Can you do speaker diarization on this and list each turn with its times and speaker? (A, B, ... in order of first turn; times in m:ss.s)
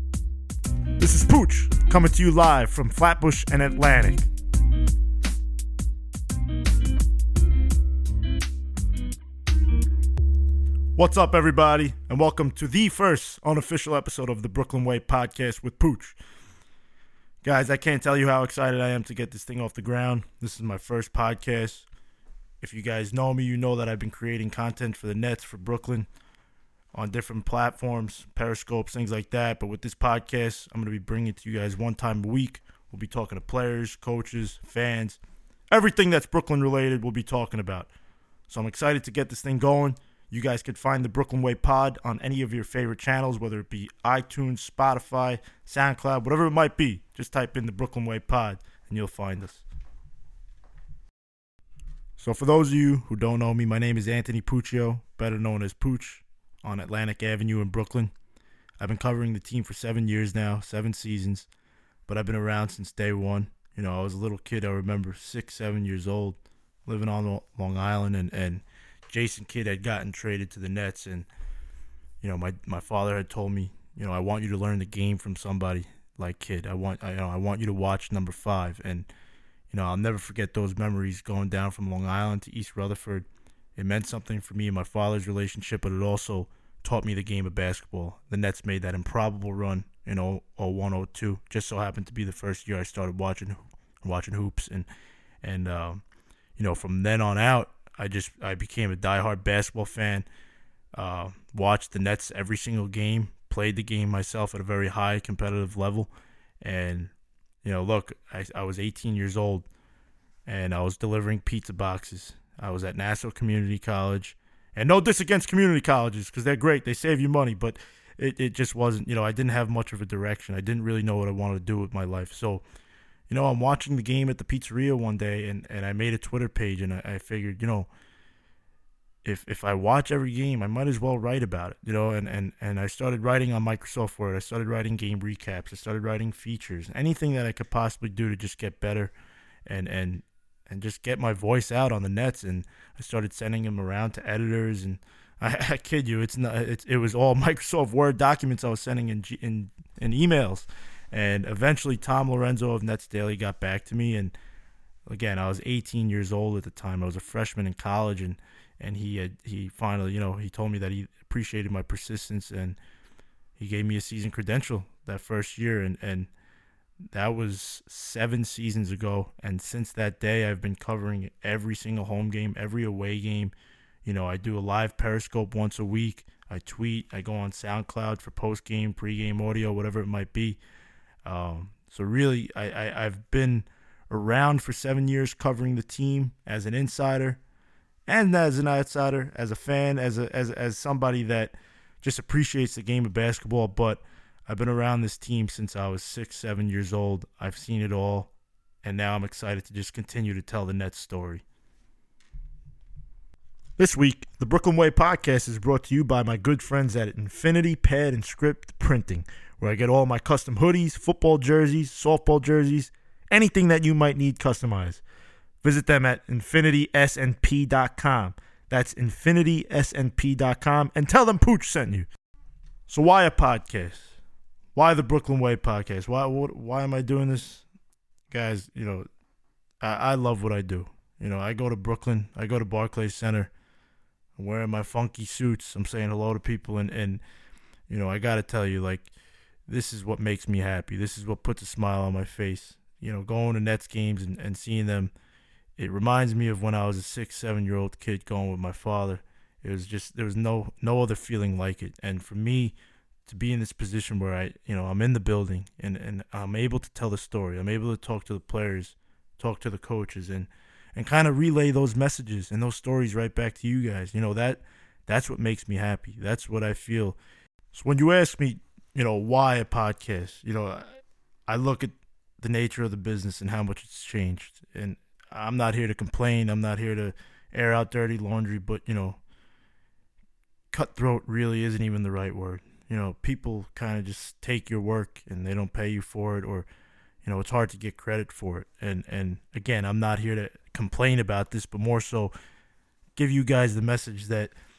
0:01.0-0:04.3 A
0:11.0-0:16.2 A
0:17.4-0:21.9 A
0:22.6-0:26.1 A
0:26.9-0:37.9 A
0:38.5-0:49.6 A
0:52.2-0:58.1 A
0:58.8-1:01.5 A
1:02.1-1:11.3 A
1:12.2-1:19.1 A
1:19.7-1:34.9 A
1:35.4-1:36.0 A
1:36.6-1:40.3 A
1:40.9-1:49.7 A
1:50.4-2:02.6 A
2:03.3-2:07.9 A
2:09.2-2:19.1 A
2:19.6-2:34.3 A
2:35.1-2:42.8 A
2:43.6-2:46.3 A
2:47.1-3:00.6 A
3:01.2-3:07.4 A
3:08.1-3:21.4 A
3:23.8-3:35.0 A
3:35.6-3:42.1 A
3:42.9-3:44.2 A
3:44.7-3:47.6 A
3:48.3-3:49.1 A
3:49.8-3:53.5 A
3:54.4-3:57.2 A
3:57.9-3:59.1 A
3:59.7-4:05.1 A
4:05.8-4:27.2 A
4:27.7-4:39.2 A
4:40.7-4:46.7 A
4:47.2-4:52.3 A
4:53.2-4:54.5 A